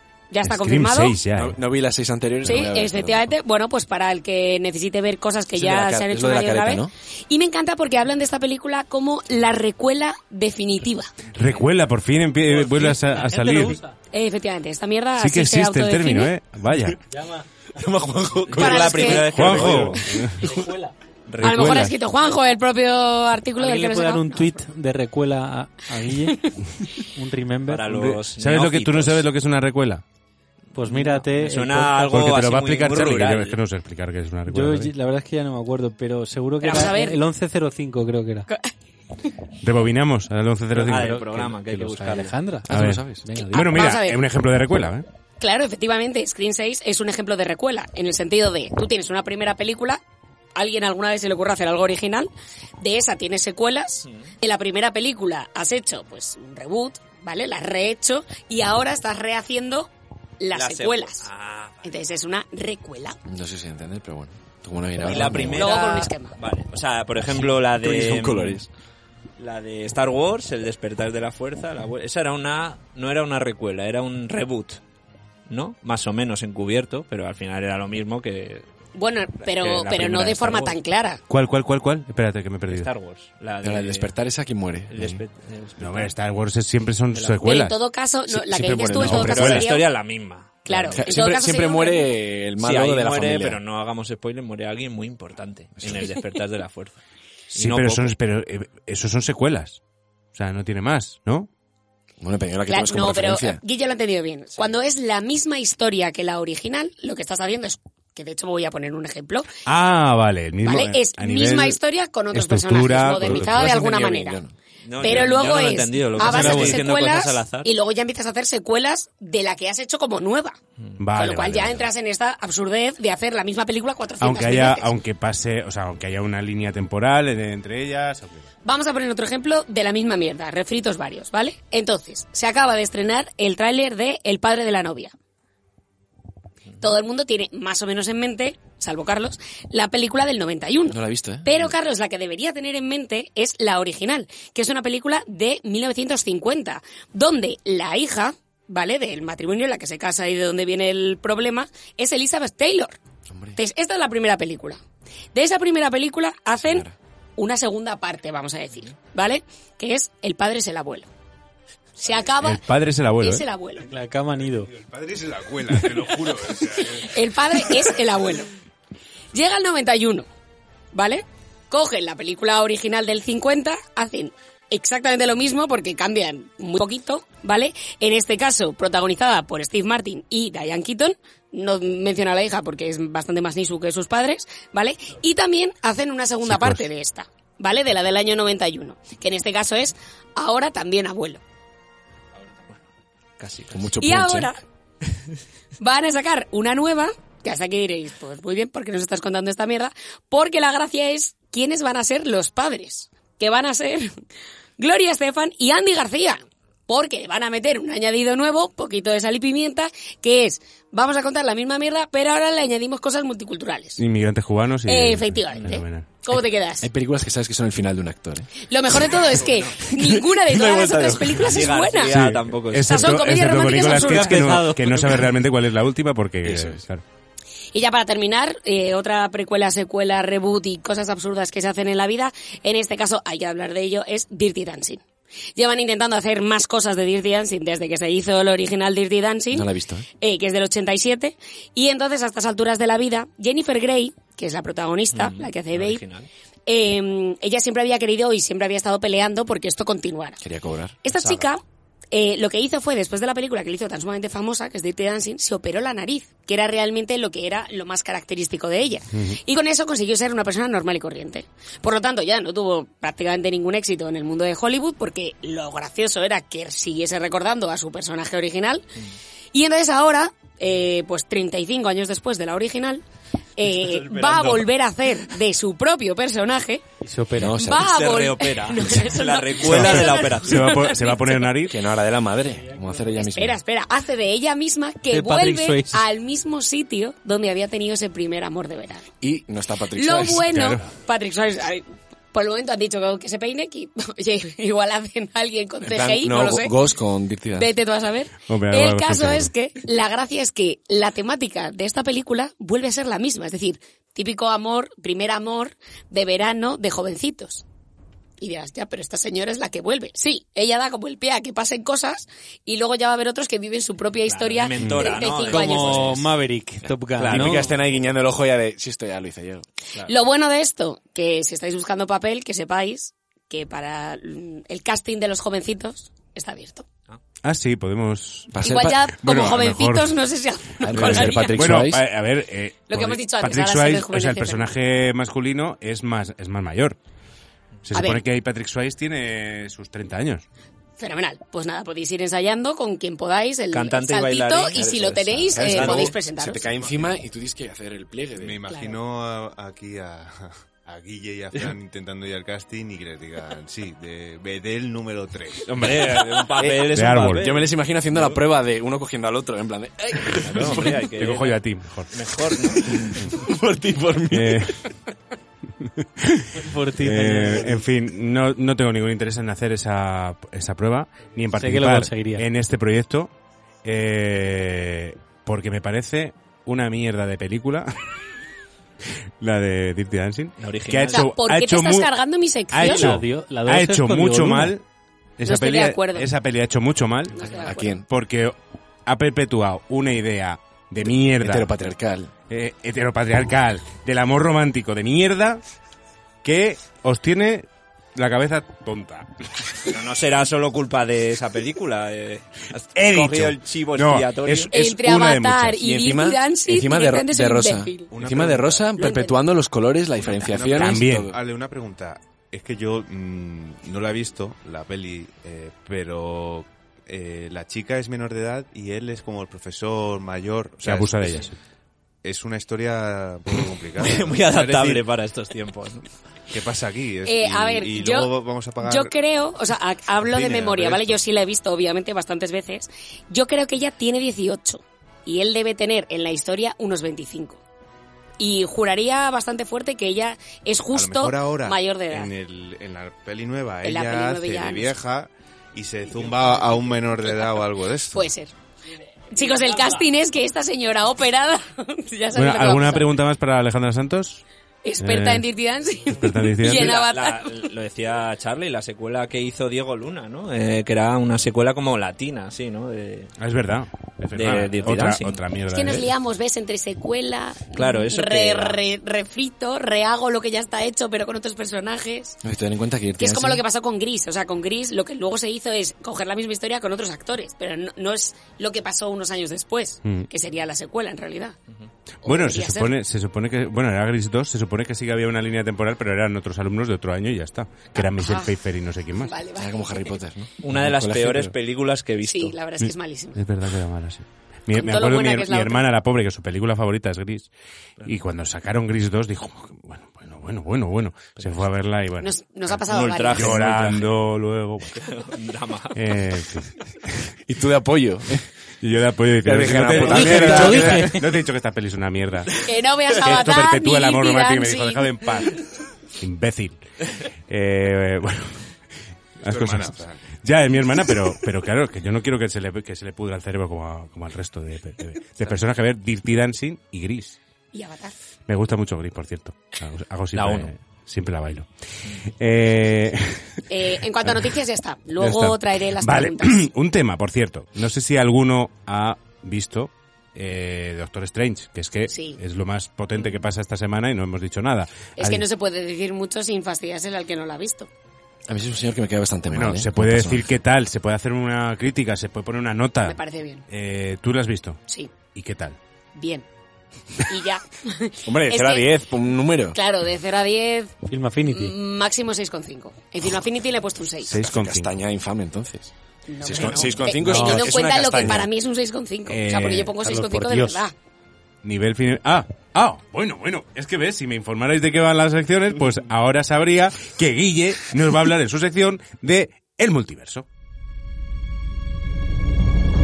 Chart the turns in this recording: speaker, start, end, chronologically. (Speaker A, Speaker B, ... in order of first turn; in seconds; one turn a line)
Speaker A: 0.3-1.2
Speaker B: 0.4-1.6
Speaker C: 1.3-3.3
Speaker A: 2.4-11.2
Speaker C: 5.5-6.9
Speaker B: 11.3-13.8
Speaker D: 12.5-13.9
Speaker A: 14.1-16.3
Speaker B: 15.2-17.0
Speaker D: 17.1-17.4
Speaker C: 17.7-19.8
Speaker E: 18.5-20.0
Speaker A: 18.5-19.5
Speaker B: 19.3-20.5
Speaker D: 20.4-20.9
Speaker E: 21.3-21.9
Speaker B: 21.4-21.9
Speaker A: 21.4-24.5
Speaker D: 23.6-26.4
Speaker D: 27.1-27.9
Speaker E: 27.7-29.3
Speaker B: 27.9-30.0
Speaker D: 30.7-32.3
Speaker E: 30.8-33.6
Speaker B: 32.1-34.9
Speaker D: 34.5-38.5
Speaker A: 36.6-37.2
Speaker B: 39.6-41.2
Speaker E: 40.7-42.3
Speaker D: 40.9-43.7
Speaker C: 42.7-43.2
Speaker B: 42.7-45.0
Speaker A: 43.5-44.2
Speaker A: 45.4-50.0
Speaker A: 50.5-61.3
Speaker E: 60.5-62.0
Speaker A: 61.8-63.2
Speaker C: 63.3-65.7
Speaker E: 65.0-68.6
Speaker A: 65.5-66.3
Speaker C: 67.2-68.7
Speaker E: 69.4-74.8
Speaker E: 75.5-78.6
Speaker A: 79.0-81.2
Speaker E: 79.4-80.8
Speaker B: 81.3-82.9
Speaker E: 82.7-84.1
Speaker C: 83.6-85.2
Speaker E: 84.9-86.1
Speaker B: 85.8-87.8
Speaker E: 87.1-87.4
Speaker A: 87.4-89.9
Speaker C: 88.3-89.5
Speaker B: 88.9-89.7
Speaker E: 89.0-91.0
Speaker A: 90.6-92.1
Speaker C: 90.9-93.6
Speaker E: 92.6-97.0
Speaker C: 95.8-96.0
Speaker E: 97.5-98.1
Speaker B: 97.5-99.8
Speaker B: 100.3-101.5
Speaker C: 102.2-103.6
Speaker A: 102.7-109.5
Speaker B: 109.7-111.8
Speaker A: 110.6-114.4
Speaker B: 112.3-113.7
Speaker C: 113.1-115.3
Speaker E: 114.8-117.7
Speaker A: 115.0-120.6
Speaker B: 116.2-116.8
Speaker B: 121.0-121.9
Speaker A: 121.1-124.9
Speaker B: 124.2-128.4
Speaker A: 128.6-135.1
Speaker A: 136.8-153.0
Speaker C: 140.9-141.7
Speaker C: 153.3-153.6
Speaker A: 153.6-154.8
Speaker A: 155.3-156.8
Speaker C: 156.6-156.9
Speaker A: 157.4-161.1
Speaker A: 162.0-162.6
Speaker B: 162.4-163.4
Speaker A: 163.2-163.9
Speaker D: 163.9-164.7
Speaker F: 164.7-167.2
Speaker A: 167.0-168.5
Speaker A: 169.3-170.3
Speaker A: 170.9-191.4
Speaker B: 186.4-186.8
Speaker E: 193.4-193.9
Speaker C: 193.7-194.5
Speaker A: 194.0-194.6
Speaker A: 195.8-204.1
Speaker A: 204.8-214.0
Speaker B: 214.0-216.1
Speaker A: 214.8-216.9
Speaker C: 216.8-221.5
Speaker A: 218.7-222.1
Speaker E: 221.4-223.2
Speaker B: 222.1-227.0
Speaker A: 222.8-224.6
Speaker D: 224.1-225.0
Speaker E: 224.9-225.2
Speaker C: 226.4-226.8
Speaker A: 227.7-235.0
Speaker A: 235.6-246.0
Speaker C: 239.5-240.1
Speaker E: 245.1-246.3
Speaker A: 246.7-250.4
Speaker C: 250.4-251.0
Speaker A: 251.0-268.8
Speaker E: 251.1-251.4
Speaker A: 269.5-273.0
Speaker A: 273.6-276.8
Speaker E: 273.8-274.6
Speaker D: 277.0-277.6
Speaker C: 277.4-277.9
Speaker A: 277.4-281.5
Speaker E: 277.7-280.9
Speaker B: 279.6-281.8
Speaker C: 281.7-283.6
Speaker A: 283.1-289.1
Speaker D: 285.1-286.0
Speaker C: 289.2-290.7
Speaker A: 289.9-296.7
Speaker B: 290.5-290.8
Speaker C: 295.8-297.7
Speaker A: 297.5-307.6
Speaker B: 298.4-299.5
Speaker A: 308.4-316.2
Speaker E: 314.2-316.2
Speaker D: 315.4-317.7
Speaker C: 316.8-319.6
Speaker E: 317.2-317.7
Speaker A: 320.1-326.9
Speaker B: 327.4-330.2
Speaker C: 328.5-329.1
Speaker A: 328.6-331.8
Speaker C: 330.9-332.0
Speaker B: 330.9-337.0
Speaker A: 332.9-334.7
Speaker B: 337.9-340.4
Speaker A: 337.9-338.2
Speaker A: 341.0-346.6
Speaker E: 343.7-346.1
Speaker C: 345.3-348.6
Speaker F: 346.7-347.1
Speaker F: 348.4-356.0
Speaker A: 348.7-349.0
Speaker E: 355.6-358.4
Speaker C: 356.6-361.1
Speaker B: 356.9-357.5
Speaker E: 360.3-363.3
Speaker B: 361.2-362.1
Speaker C: 362.7-364.7
Speaker B: 364.3-364.8
Speaker B: 365.8-373.3
Speaker D: 366.5-367.8
Speaker D: 371.6-372.4
Speaker B: 373.8-377.9
Speaker B: 379.4-382.1
Speaker E: 380.6-381.3
Speaker A: 381.1-383.2
Speaker B: 382.7-384.8
Speaker D: 382.8-384.8
Speaker B: 385.4-387.5
Speaker A: 385.4-386.3
Speaker A: 387.3-388.0
Speaker C: 387.6-388.1
Speaker B: 388.1-391.7
Speaker C: 391.2-392.3
Speaker B: 392.5-395.6
Speaker B: 396.4-399.3
Speaker E: 399.9-404.7
Speaker B: 402.9-405.8
Speaker A: 404.7-408.1
Speaker C: 405.8-411.4
Speaker F: 408.1-408.9
Speaker A: 408.9-409.4
Speaker F: 410.2-421.4
Speaker B: 410.7-411.3
Speaker B: 420.8-421.5
Speaker F: 422.2-425.0
Speaker E: 424.0-426.1
Speaker F: 426.5-429.1
Speaker A: 427.2-437.6
Speaker F: 430.2-431.2
Speaker A: 438.4-442.3
Speaker F: 440.9-448.3
Speaker A: 443.8-444.9
Speaker A: 448.1-448.5
Speaker A: 449.3-453.1
Speaker B: 452.3-454.4
Speaker A: 454.8-457.7
Speaker B: 455.0-455.5
Speaker B: 456.1-457.0
Speaker E: 456.7-463.3
Speaker B: 463.4-466.1
Speaker E: 464.3-465.4
Speaker A: 465.7-472.4
Speaker E: 467.7-468.8
Speaker C: 472.4-473.6
Speaker A: 473.2-481.6
Speaker A: 482.2-482.9
Speaker B: 482.2-489.3
Speaker A: 487.9-488.5
Speaker A: 489.1-490.1
Speaker C: 489.5-491.5
Speaker E: 490.6-492.6
Speaker A: 492.2-493.4
Speaker B: 492.8-497.5
Speaker A: 494.7-495.9
Speaker B: 498.0-502.3
Speaker E: 501.4-501.6
Speaker A: 502.2-503.6
Speaker E: 502.9-504.1
Speaker B: 503.3-505.0
Speaker E: 504.9-506.0
Speaker B: 505.9-507.3
Speaker C: 507.4-508.5
Speaker B: 508.8-512.5
Speaker C: 509.4-511.1
Speaker D: 510.2-511.2
Speaker A: 512.6-515.4
Speaker B: 513.2-515.6
Speaker B: 516.2-516.8
Speaker B: 517.5-518.7
Speaker B: 519.4-527.4
Speaker F: 519.4-520.3
Speaker A: 527.7-528.1
Speaker B: 528.5-531.7
Speaker E: 530.3-530.7
Speaker B: 532.4-533.6
Speaker A: 533.7-536.6
Speaker B: 534.2-534.5
Speaker B: 535.2-545.5
Speaker A: 542.1-542.4
Speaker A: 545.2-547.9
Speaker C: 548.5-550.4
Speaker B: 549.5-555.8
Speaker A: 553.0-553.6
Speaker A: 554.9-555.1
Speaker A: 556.1-556.4
Speaker A: 557.2-559.0
Speaker C: 558.2-559.8
Speaker A: 559.7-560.9
Speaker D: 561.1-561.7
Speaker A: 561.5-564.3
Speaker B: 564.3-564.9
Speaker C: 564.3-568.5
Speaker A: 566.3-570.9
Speaker D: 567.2-567.7
Speaker B: 569.3-569.9
Speaker D: 570.0-570.8
Speaker B: 571.6-580.5